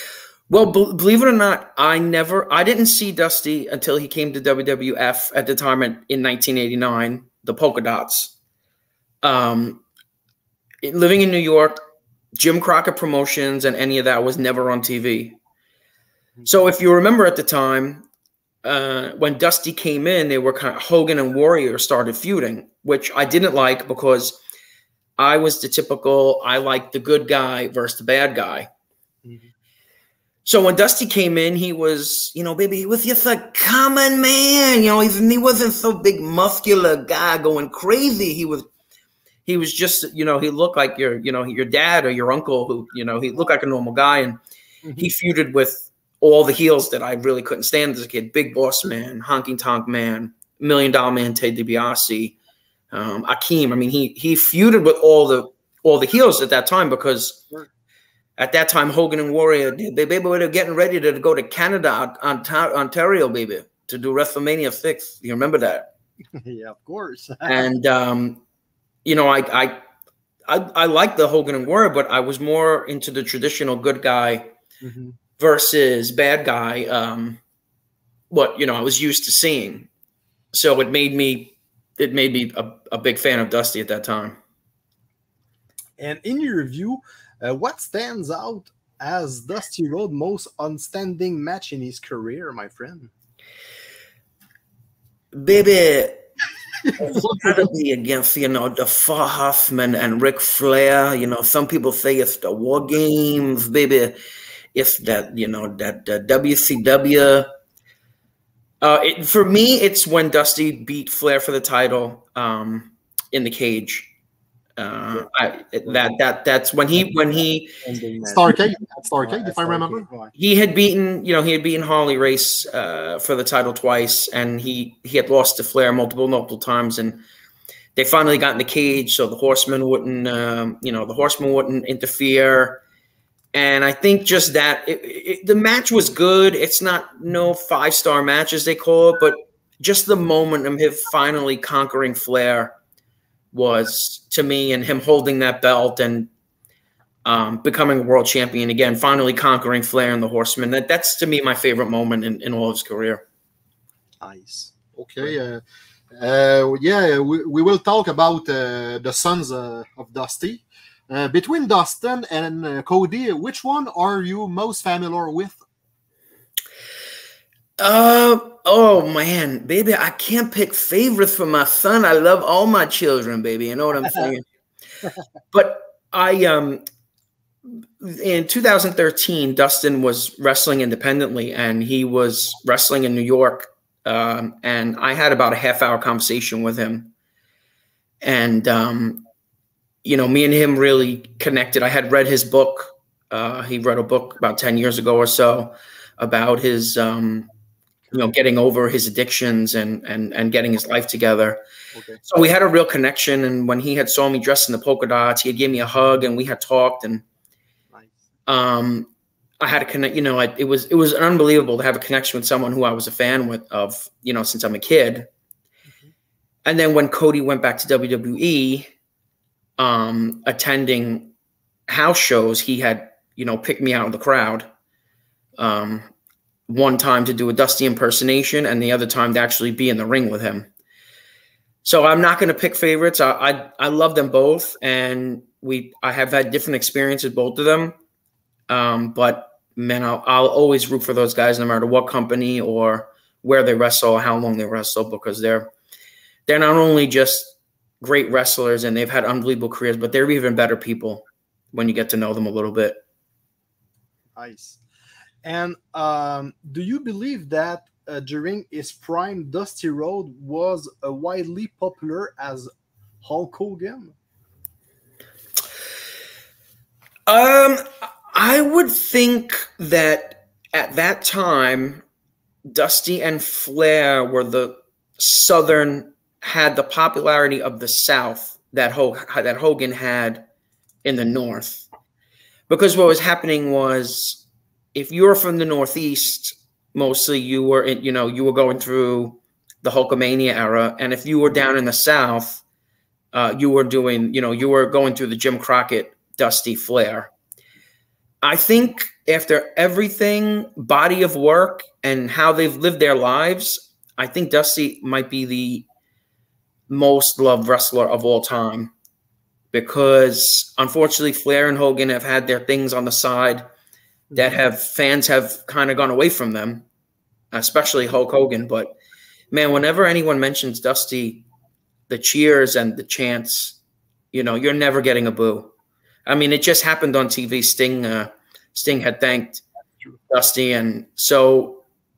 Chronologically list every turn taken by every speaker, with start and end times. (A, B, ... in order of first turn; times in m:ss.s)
0:00.5-0:08.3 A
0:09.2-0:09.8 A
0:10.8-0:11.8 A
0:12.4-0:15.4 A
0:16.4-0:18.0 A
0:18.6-0:24.4 A
0:25.2-0:28.7 A
0:29.2-0:29.5 B
0:30.4-0:38.7 A
0:39.5-0:44.4 A
0:45.0-0:52.4 A
0:52.9-0:57.4 A
0:58.4-1:05.9 A
1:06.4-1:07.6 B
1:07.4-1:08.4 A
1:09.0-1:09.8 A
1:10.5-1:14.5 A
1:14.8-1:15.2 B
1:15.4-1:17.4 A
1:18.3-1:19.9 A
1:20.5-1:24.4 A
1:26.0-1:33.1 B
1:35.3-1:36.3 A
1:37.0-1:44.2 A
1:44.7-1:47.5 A
1:48.8-1:54.1 A
1:54.8-1:57.8 A
1:57.8-1:58.5 B
1:58.2-2:00.1 C
1:59.2-2:00.3 B
2:00.4-2:07.2 A
2:08.0-2:12.8 A
2:13.5-2:22.7 A
2:23.5-2:26.3 A
2:27.2-2:33.2 A
2:34.2-2:35.4 B
2:35.0-2:45.6 C
2:47.8-2:54.4 A
2:55.5-2:56.8 A
2:58.0-3:07.1 A
3:08.2-3:09.2 A
3:10.0-3:17.5 A
3:18.1-3:21.6 A
3:21.9-3:22.2 B
3:22.2-3:27.2 A
3:27.9-3:28.2 B
3:28.5-3:29.1 A
3:29.6-3:35.3 A
3:36.6-3:38.9 A
3:39.8-3:41.3 A
3:41.9-3:44.7 A
3:45.6-3:46.1 A
3:46.7-3:50.7 A
3:51.8-3:58.0 A
3:58.7-4:05.7 A
4:06.5-4:13.0 A
4:14.4-4:14.8 B
4:15.4-4:22.7 B
4:23.2-4:24.2 B
4:27.3-4:32.0 A
4:32.6-4:40.4 A
4:41.0-4:41.9 A
4:42.7-4:52.6 A
4:53.3-4:57.3 A
4:58.4-5:05.8 A
5:06.9-5:08.9 A
5:09.7-5:13.7 A
5:14.4-5:16.8 A
5:17.5-5:19.0 A
5:19.5-5:21.4 A
5:22.1-5:23.8 A
5:24.3-5:25.7 A
5:26.3-5:29.6 A
5:30.3-5:31.8 A